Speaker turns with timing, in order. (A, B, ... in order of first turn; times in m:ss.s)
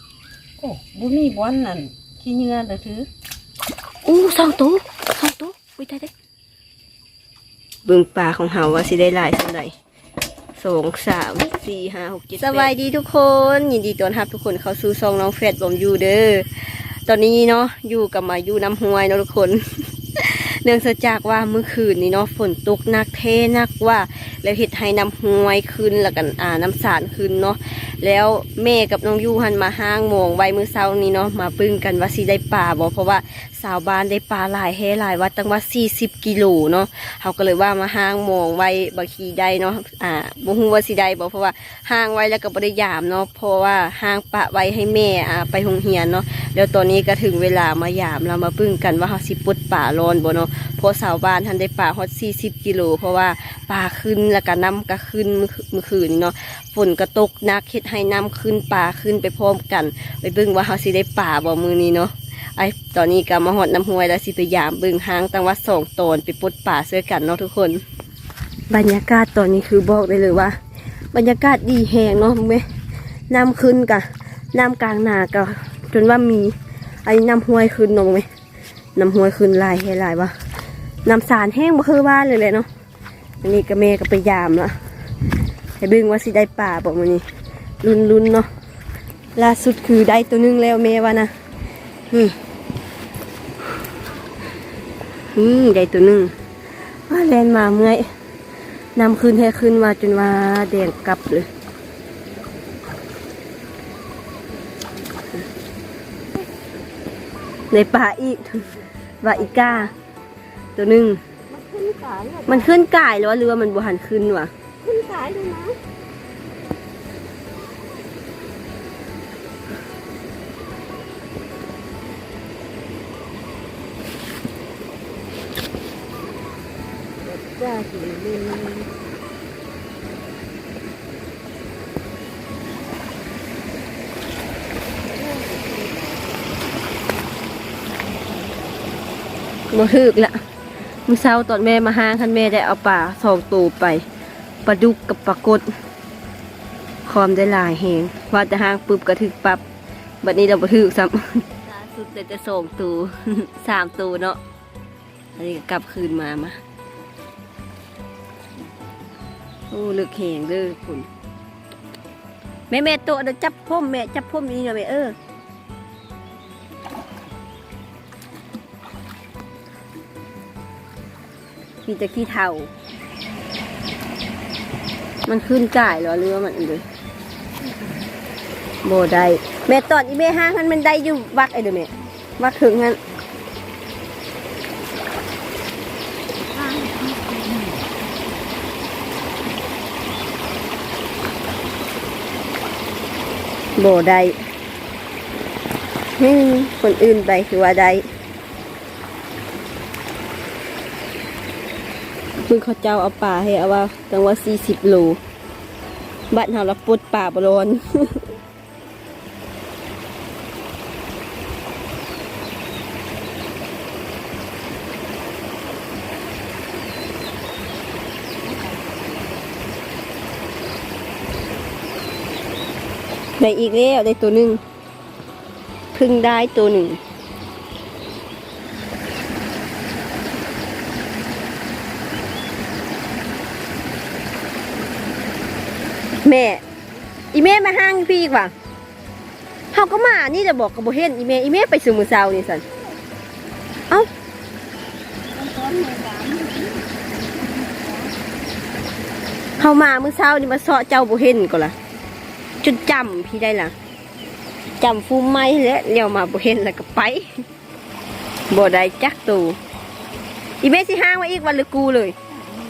0:00.6-0:03.1 A
0:04.0-0:06.1 B
0:07.8-0:09.7 B
0:10.6-1:07.8 B
1:08.7-1:10.6 B
1:11.1-1:12.6 B
1:13.3-1:18.3 B
1:19.0-1:20.3 B
1:21.0-1:22.7 B
1:23.4-1:25.3 B
1:25.8-1:27.2 B
1:27.8-1:28.5 B
1:29.4-1:31.3 B
1:32.1-1:32.4 B
1:35.3-1:36.3 B
1:36.9-1:38.0 B
1:39.0-1:41.5 B
1:47.7-1:48.6 B
1:49.2-1:49.9 B
1:49.5-1:49.9 A
1:50.8-1:51.2 B
1:51.5-1:52.7 A
1:52.5-1:54.5 B
1:54.8-1:55.8 A
2:07.2-2:08.9 A
2:15.1-2:16.4 A
2:19.7-2:20.4 B
2:21.1-2:24.0 B
2:24.6-2:25.7 B
2:27.0-2:29.6 B
2:30.2-2:34.4 B
2:35.4-2:36.6 B
2:39.7-2:41.1 B
2:42.7-2:45.2 B
2:51.8-2:52.7 B
2:55.2-2:56.8 B
2:58.8-3:03.0 B
3:06.5-3:07.8 A
3:13.8-3:14.4 B
3:16.2-3:18.1 B
3:22.5-3:25.2 B
3:26.3-3:28.2 B
3:38.7-3:39.2 A
3:43.4-3:44.6 B
3:45.9-3:47.0 B
3:56.2-3:56.6 B
3:57.3-3:58.5 B
3:59.7-4:02.6 B
4:05.3-4:08.2 A
4:09.6-4:11.7 B
4:12.6-4:13.7 B
4:14.8-4:17.3 B
4:18.5-4:19.6 B
4:20.6-4:22.2 B